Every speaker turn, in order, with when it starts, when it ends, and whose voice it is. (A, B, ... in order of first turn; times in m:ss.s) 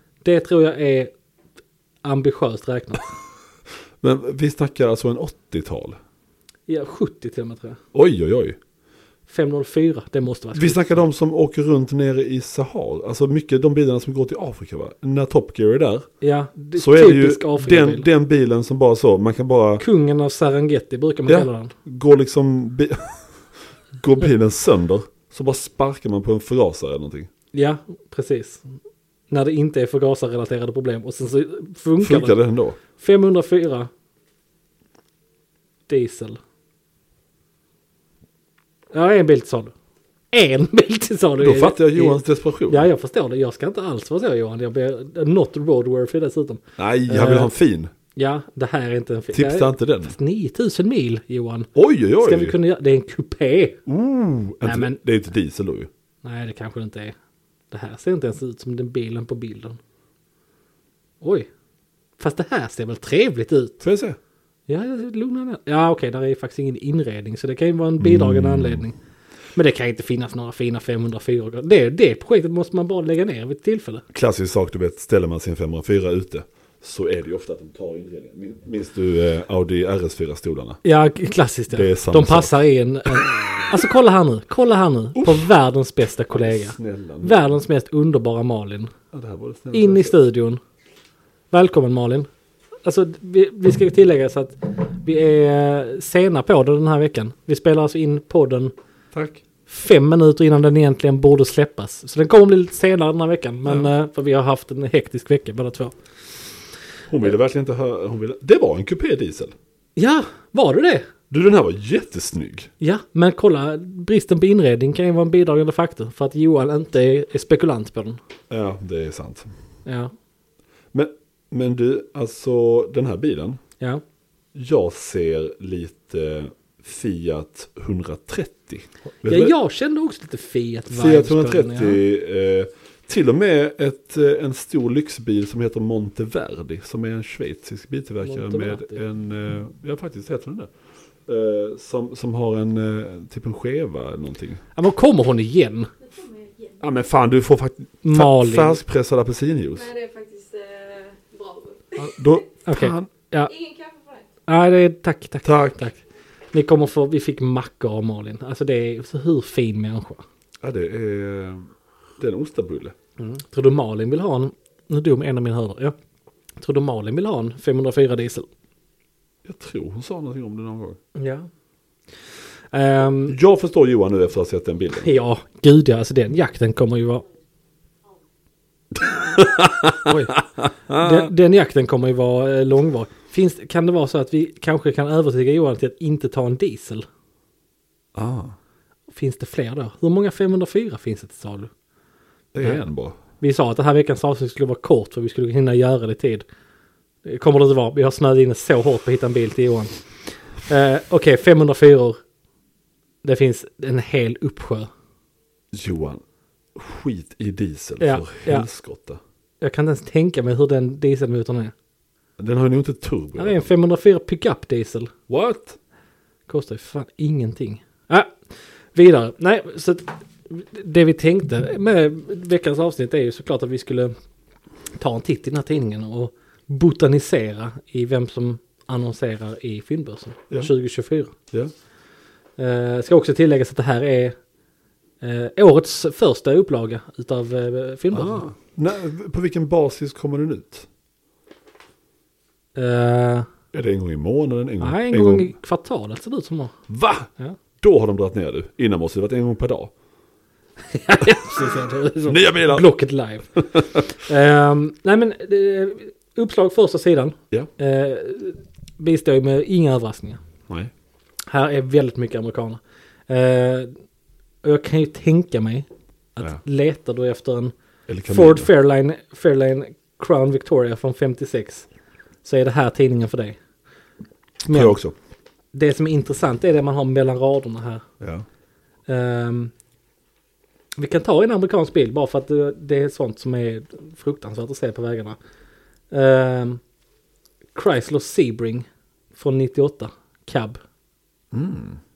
0:00.2-0:01.1 A
0:02.0-0:03.1 A
0:04.0-0:06.0 B
0:06.7-0:07.8 A
0:07.9-0:08.6 B
0:09.3-0:11.0 A
0:10.6-0:16.1 B
0:16.2-0:18.1 A
0:16.8-0:19.8 B
0:19.8-0:21.8 A
0:21.3-0:23.4 B
0:24.0-0:27.3 B
0:27.5-0:28.6 A
0:29.3-0:32.4 A
0:32.0-0:32.8 B
0:33.0-0:33.9 A
0:35.9-0:36.4 A
0:38.9-0:39.7 A
0:40.3-0:47.5 A
0:41.4-0:42.9 B
0:46.8-0:47.9 B
0:48.2-0:51.7 A
0:49.3-0:50.2 B
0:51.8-0:52.6 B
0:52.2-0:53.8 A
0:53.9-0:55.9 B
0:54.6-0:55.0 A
0:56.2-0:57.2 A
0:57.7-0:59.8 A
1:01.2-1:01.5 A
1:02.2-1:03.8 A
1:03.8-1:04.2 B
1:04.7-1:09.0 A
1:08.0-1:08.8 B
1:09.6-1:14.0 A
1:14.1-1:20.8 B
1:20.8-1:28.9 A
1:21.7-1:22.6 B
1:23.1-1:23.8 B
1:25.2-1:25.5 B
1:26.3-1:27.4 B
1:29.1-1:30.2 B
1:29.7-1:30.6 A
1:31.5-1:32.3 A
1:32.8-1:38.7 A
1:39.1-1:39.4 B
1:39.7-1:46.0 A
1:43.7-1:43.9 B
1:47.1-1:49.6 B
1:50.0-1:51.1 A
1:51.3-1:52.7 B
1:52.8-1:58.2 A
1:58.5-1:59.5 B
1:59.9-2:00.1 A
2:00.9-2:03.6 B
2:04.5-2:09.5 B
2:09.2-2:12.0 A
2:10.9-2:20.7 B
2:18.2-2:19.0 A
2:21.3-2:24.6 B
2:24.8-2:25.9 A
2:26.0-2:26.8 C
2:26.8-2:29.9 B
2:28.0-2:28.8 A
2:29.7-2:32.2 C
2:32.0-2:33.1 B
2:32.7-2:33.5 A
2:33.5-2:34.3 C
2:34.5-2:36.0 A
2:35.4-2:35.8 B
2:36.5-2:40.2 A
2:40.6-2:42.9 B
2:43.2-2:46.0 A
2:46.6-2:48.5 A
2:49.4-2:51.0 B
2:51.2-2:51.5 A
2:52.7-2:53.4 A
2:53.3-2:55.1 B
2:55.0-2:57.2 A
2:59.0-3:01.3 B
3:00.1-3:00.4 A
3:00.9-3:07.1 A
3:08.2-3:08.6 B
3:09.1-3:11.7 A
3:12.5-3:13.2 B
3:13.4-3:16.4 A
3:17.2-3:20.0 A
3:20.6-3:22.2 A
3:23.2-3:24.9 A
3:25.7-3:26.2 B
3:26.8-3:29.2 B
3:28.0-3:28.7 A
3:29.6-3:31.7 A
3:32.4-3:33.7 B
3:33.4-3:35.1 A
3:35.3-3:35.8 B
3:36.5-3:38.4 A
3:39.0-3:44.1 A
3:45.0-3:51.3 A
3:52.6-3:54.4 A
3:55.2-3:58.5 A
3:58.1-4:00.9 B
4:02.8-4:03.5 A
4:03.7-4:05.5 B
4:04.8-4:06.8 A
4:06.9-4:07.3 B
4:07.8-4:09.9 B
4:10.9-4:13.5 A
4:12.3-4:12.9 B
4:13.6-4:14.0 B
4:14.1-4:20.4 A
4:21.5-4:24.0 A
4:24.6-4:27.7 A
4:28.1-4:28.7 B
4:28.3-4:31.9 A
4:32.4-4:33.6 A
4:34.7-4:35.0 A
4:34.7-4:35.1 B
4:35.7-4:38.0 A
4:38.2-4:38.5 B
4:39.1-4:39.7 A
4:41.0-4:45.4 A
4:46.1-4:46.8 A
4:47.8-4:50.8 A
4:51.5-4:52.0 B